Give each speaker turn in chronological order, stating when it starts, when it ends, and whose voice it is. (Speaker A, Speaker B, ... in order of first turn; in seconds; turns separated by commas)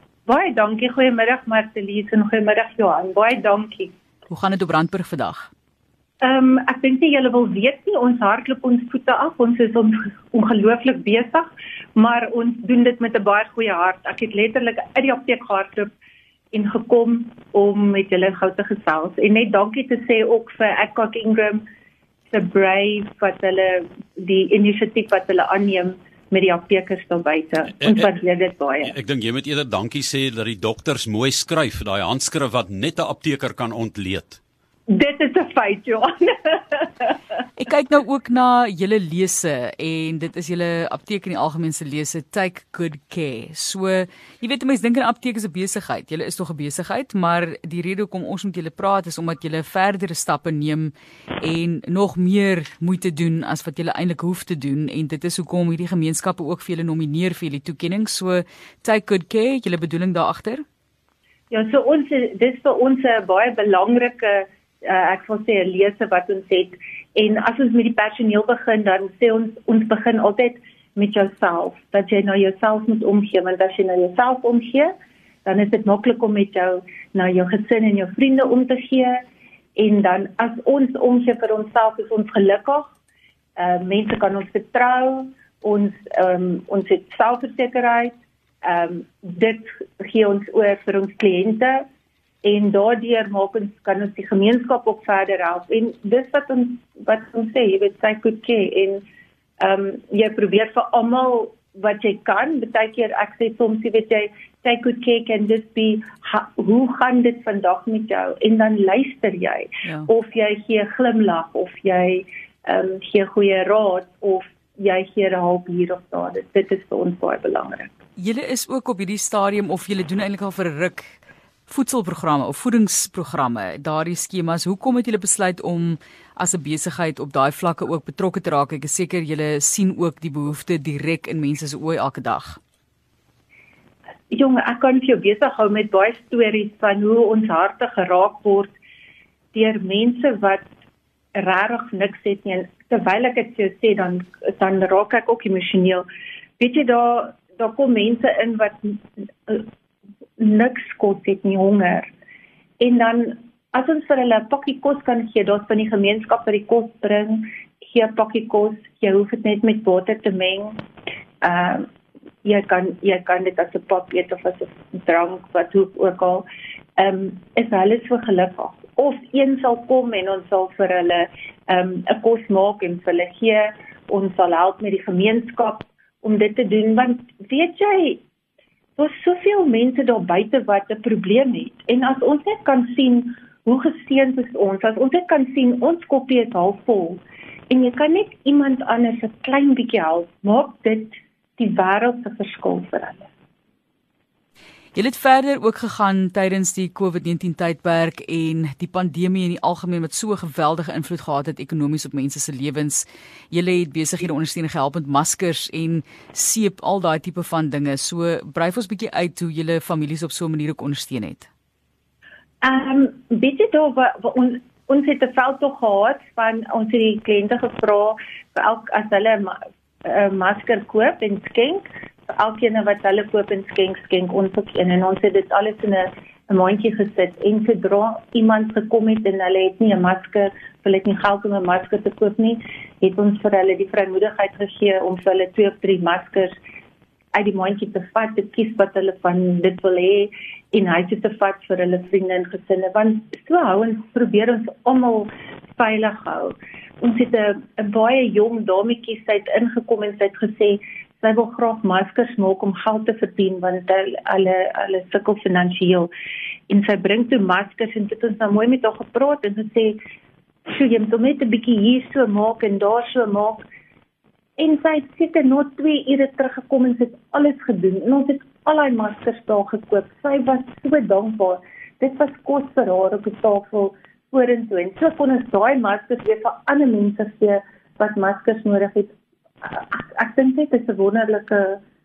Speaker A: 0.2-3.9, Speaker B: 4.3-5.5, Speaker A: 6.2-15.9, Speaker A: 16.5-21.6, Speaker A: 22.3-28.9, Speaker C: 28.8-34.4, Speaker A: 34.9-37.1, Speaker B: 37.5-60.6, Speaker A: 61.5-74.9, Speaker A: 75.4-79.2, Speaker A: 79.8-82.9, Speaker A: 83.6-91.8, Speaker A: 92.4-99.0, Speaker A: 99.6-117.9, Speaker B: 118.2-121.2, Speaker B: 121.7-132.6, Speaker A: 134.3-138.8, Speaker A: 139.5-140.7, Speaker A: 141.3-146.1, Speaker A: 146.6-149.7, Speaker A: 150.4-152.1, Speaker A: 152.8-160.8, Speaker A: 161.4-161.9, Speaker A: 162.4-166.4, Speaker A: 167.0-178.2, Speaker A: 179.0-193.3, Speaker B: 194.9-211.5, Speaker A: 212.6-236.6, Speaker A: 237.3-256.1, Speaker A: 256.7-260.0, Speaker A: 260.7-263.7, Speaker A: 264.6-281.8